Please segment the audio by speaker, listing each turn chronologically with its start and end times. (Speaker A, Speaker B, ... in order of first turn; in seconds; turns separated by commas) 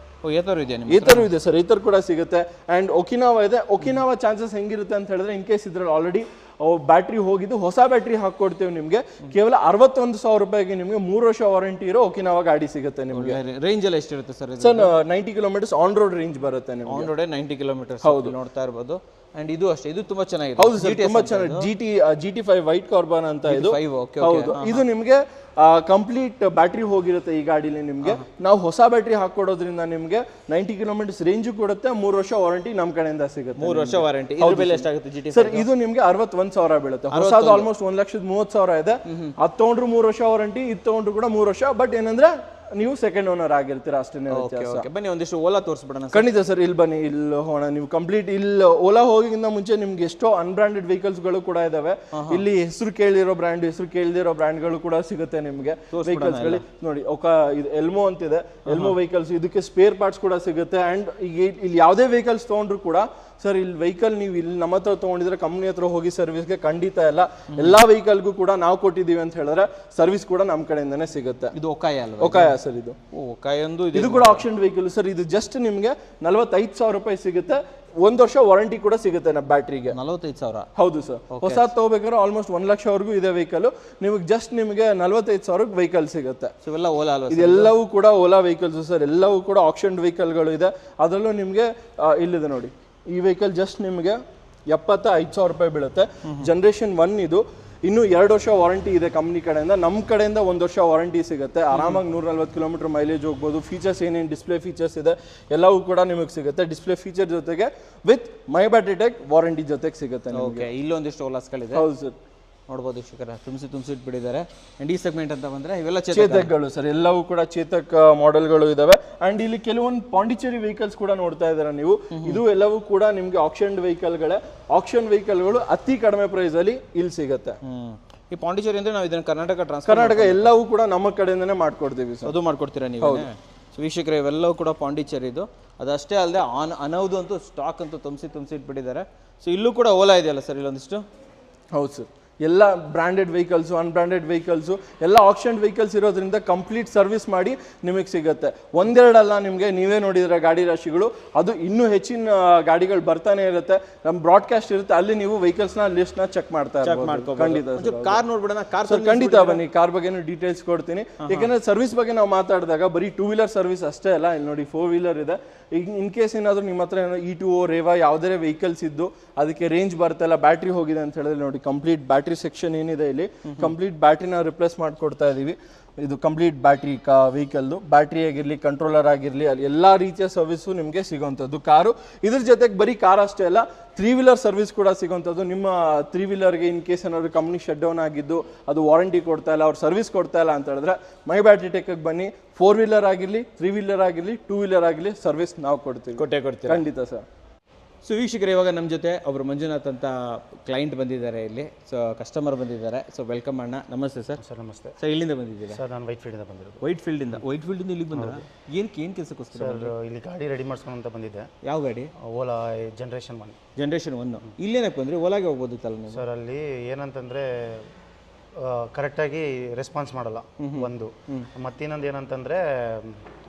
Speaker A: 0.2-1.3, Speaker B: 0.9-13.4, Speaker A: 13.1-14.9, Speaker B: 14.6-17.1, Speaker A: 16.9-21.7, Speaker B: 18.0-18.3, Speaker B: 20.6-44.9, Speaker A: 23.4-24.8, Speaker A: 33.6-35.6, Speaker A: 37.1-37.7, Speaker A: 39.1-39.3, Speaker A: 44.3-46.3, Speaker B: 46.1-71.5, Speaker A: 52.1-52.4, Speaker A: 55.9-56.6, Speaker A: 58.6-58.9, Speaker A: 71.5-72.5, Speaker B: 72.2-73.0, Speaker A: 73.1-74.4, Speaker B: 73.9-80.0, Speaker A: 79.9-80.7, Speaker B: 80.8-86.5, Speaker A: 81.3-81.7, Speaker A: 86.6-87.7, Speaker B: 87.3-110.7, Speaker A: 101.7-102.0, Speaker A: 110.3-111.9, Speaker B: 111.7-112.1, Speaker A: 112.7-116.5, Speaker B: 116.1-127.6, Speaker A: 122.1-122.4, Speaker A: 127.6-130.5, Speaker B: 129.8-132.3, Speaker A: 132.2-141.0, Speaker B: 133.0-133.3, Speaker B: 141.7-158.2, Speaker A: 156.8-159.6, Speaker B: 158.8-197.2, Speaker A: 161.2-161.5, Speaker A: 173.4-173.7, Speaker A: 196.2-196.8, Speaker A: 198.0-204.4, Speaker C: 204.4-204.9, Speaker A: 205.0-205.8, Speaker C: 205.7-206.8, Speaker A: 206.8-209.9, Speaker C: 208.1-208.4, Speaker C: 209.5-211.5, Speaker A: 211.6-212.1, Speaker C: 212.2-213.6, Speaker A: 213.8-216.2, Speaker C: 216.1-217.9, Speaker C: 218.5-223.3, Speaker A: 220.6-221.5